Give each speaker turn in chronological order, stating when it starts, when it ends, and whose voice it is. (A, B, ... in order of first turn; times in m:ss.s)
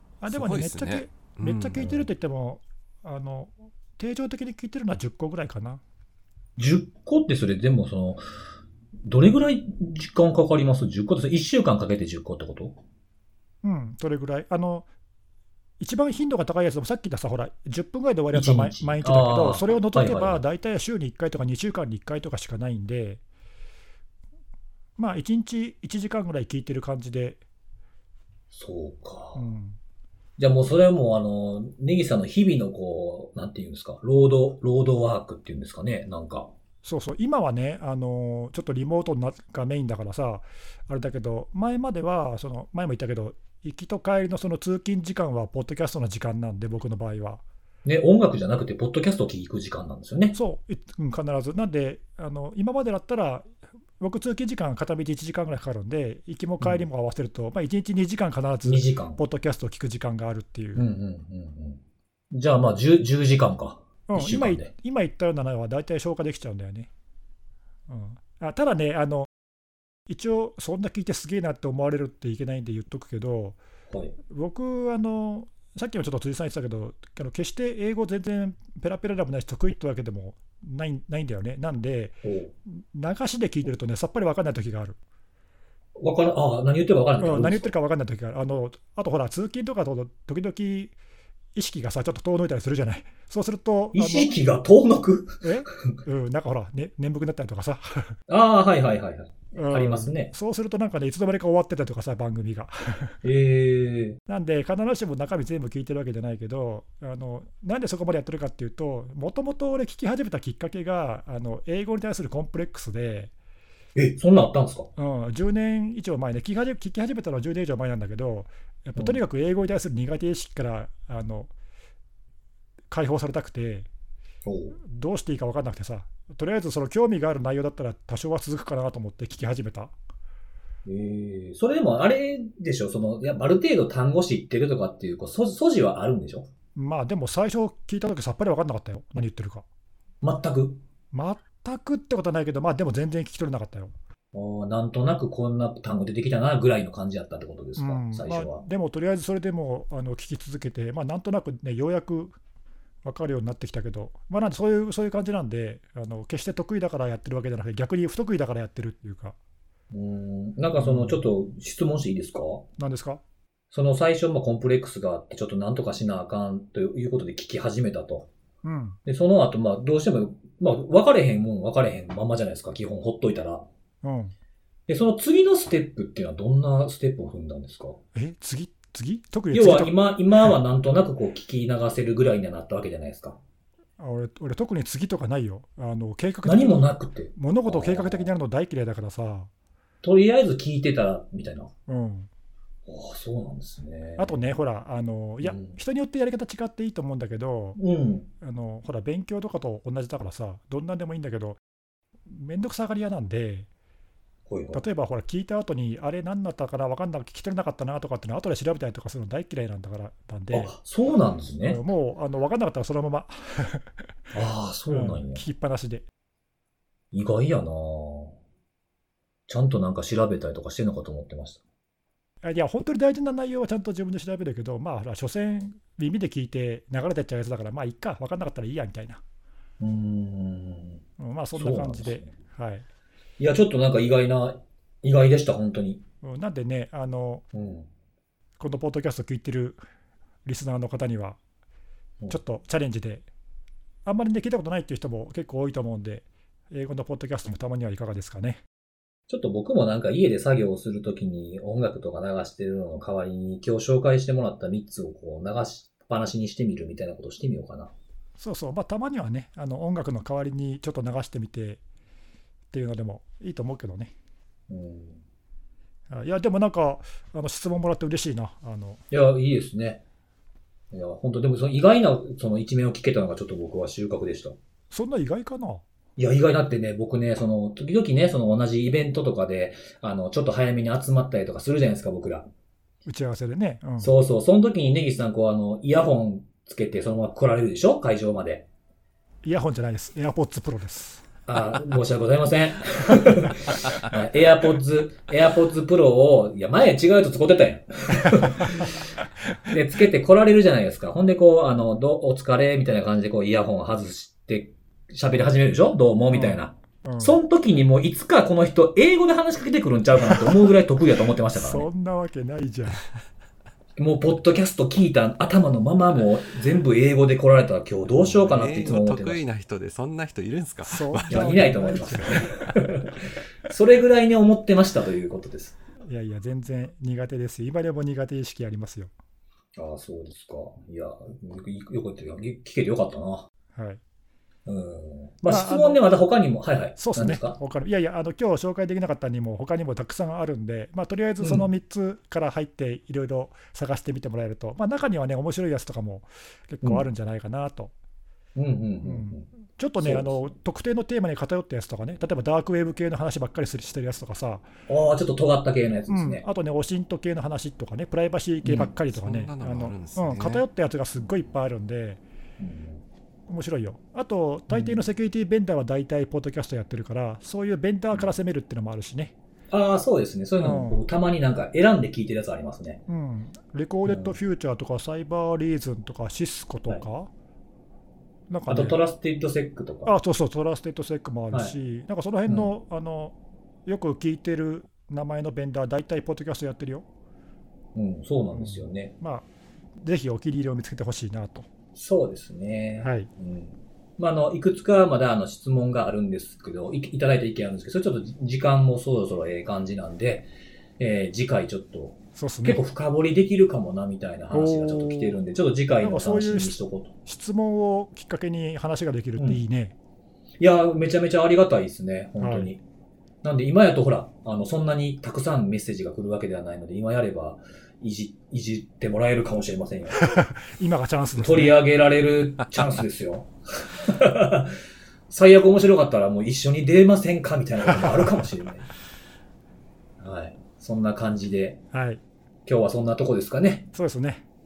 0:00.2-0:05.8 A
0:00.3-0:01.8 B
0:01.8-0:02.0 C
0:06.6-0:08.2 C
0:09.0-0:12.8 C
0:13.6-0:14.8 A
0:15.8-0:23.2 A
0:18.3-0:20.4 C
0:25.0-0:27.4 A
0:28.5-0:29.4 C
0:29.3-0:29.8 A
0:30.4-0:36.5 C
0:36.8-0:47.4 A
0:47.8-0:50.3 C
0:50.3-0:53.5 A
0:54.0-1:00.8 A
0:56.6-0:56.9 C
0:58.6-0:59.2 C
1:00.8-1:01.8 C
1:02.3-1:04.7 C
1:04.1-1:06.9 A
1:07.9-1:09.3 A
1:10.1-1:13.6 A
1:14.3-1:25.0 A
1:22.2-1:22.5 C
1:26.0-1:27.7 C
1:27.2-1:30.9 A
1:31.5-1:34.3 A
1:33.9-1:35.5 C
1:35.4-1:38.1 A
1:38.3-1:40.3 C
1:39.6-1:43.2 A
1:43.2-1:44.2 C
1:44.3-1:53.3 A
1:54.0-1:54.9 C
1:55.0-2:01.5 A
2:02.9-2:03.9 A
2:04.4-2:04.8 C
2:04.8-2:09.9 A
2:10.8-2:16.5 C
2:16.7-2:19.6 A
2:20.2-2:20.8 C
2:21.1-2:23.9 A
2:24.3-2:28.6 C
2:27.8-2:32.4 A
2:33.0-2:39.4 A
2:39.9-2:42.6 C
2:40.8-2:41.2 A
2:42.8-2:43.2 A
2:43.7-2:48.3 C
2:48.6-2:49.0 A
2:49.0-2:53.6 C
2:54.0-2:54.3 A
2:54.9-2:58.0 C
2:58.1-2:59.9 A
2:59.5-3:03.4 C
3:04.0-3:09.5 A
3:06.4-3:08.3 C
3:10.0-3:11.7 C
3:11.9-3:12.3 A
3:12.8-3:14.4 C
3:14.2-3:17.8 A
3:15.4-3:15.8 C
3:17.8-3:18.3 C
3:18.4-3:21.6 A
3:22.3-3:23.7 A
3:24.5-3:24.8 C
3:24.7-3:30.7 A
3:30.5-3:31.8 C
3:31.6-3:33.9 A
3:34.3-3:35.4 C
3:34.9-3:36.0 A
3:37.1-3:38.3 C
3:39.5-3:41.6 C
3:42.4-3:49.2 A
3:49.8-3:51.0 C
3:51.2-3:52.8 A
3:51.5-3:52.3 C
3:53.4-3:56.0 C
3:56.2-3:57.4 A
3:57.5-3:57.9 C
3:58.6-3:59.8 A
4:00.4-4:01.4 A
4:02.3-4:03.2 A
4:04.0-4:08.6 A
4:09.3-4:17.9 C
4:18.4-4:21.8 A
4:22.7-4:24.1 A
4:24.7-4:25.2 C
4:26.1-4:29.0 A
4:29.1-4:30.0 C
4:30.9-4:34.6 C
4:34.9-4:35.8 A
4:36.2-4:42.5 C
4:43.0-4:44.1 A
4:44.0-4:48.6 C
4:49.4-4:51.2 A
4:51.5-4:59.0 C
4:58.3-4:58.9 A
4:59.7-5:11.9 C
5:06.3-5:07.4 A
5:10.2-5:10.5 A
5:11.5-5:13.0 A
5:14.0-5:19.4 C
5:18.5-5:21.6 B
5:20.8-5:22.7 A
5:21.3-5:25.8 C
5:26.0-5:29.1 A
5:29.8-5:33.5 C
5:34.6-5:37.6 C
5:35.5-5:36.0 A
5:37.0-5:47.9 A
5:41.4-5:41.7 C
5:48.6-5:49.5 C
5:49.0-5:54.7 A
5:50.0-5:50.5 C
5:54.9-5:56.4 C
5:56.1-6:02.2 A
5:58.6-5:58.9 C
5:59.1-6:00.6 B
6:02.6-6:03.0 C
6:03.5-6:09.3 A
6:04.7-6:05.0 C
6:09.7-6:13.0 C
6:10.6-6:11.0 A
6:13.1-6:17.3 A
6:14.0-6:14.4 C
6:18.5-6:19.0 A
6:18.7-6:20.1 C
6:20.0-6:23.3 A
6:23.8-6:27.0 A
6:27.9-6:29.1 C
6:28.5-6:31.7 A
6:31.9-6:40.5 C
6:33.0-6:33.3 A
6:41.0-6:47.1 C
6:42.3-6:42.8 A
6:44.5-6:45.4 A
6:46.0-6:49.9 A
6:50.6-6:52.8 C
6:52.4-6:52.7 A
6:53.4-7:00.2 C
7:00.1-7:01.8 A
7:01.4-7:04.7 C
7:05.3-7:08.9 C
7:10.2-7:11.8 C
7:11.9-7:12.2 A
7:12.6-7:13.9 C
7:13.9-7:14.4 A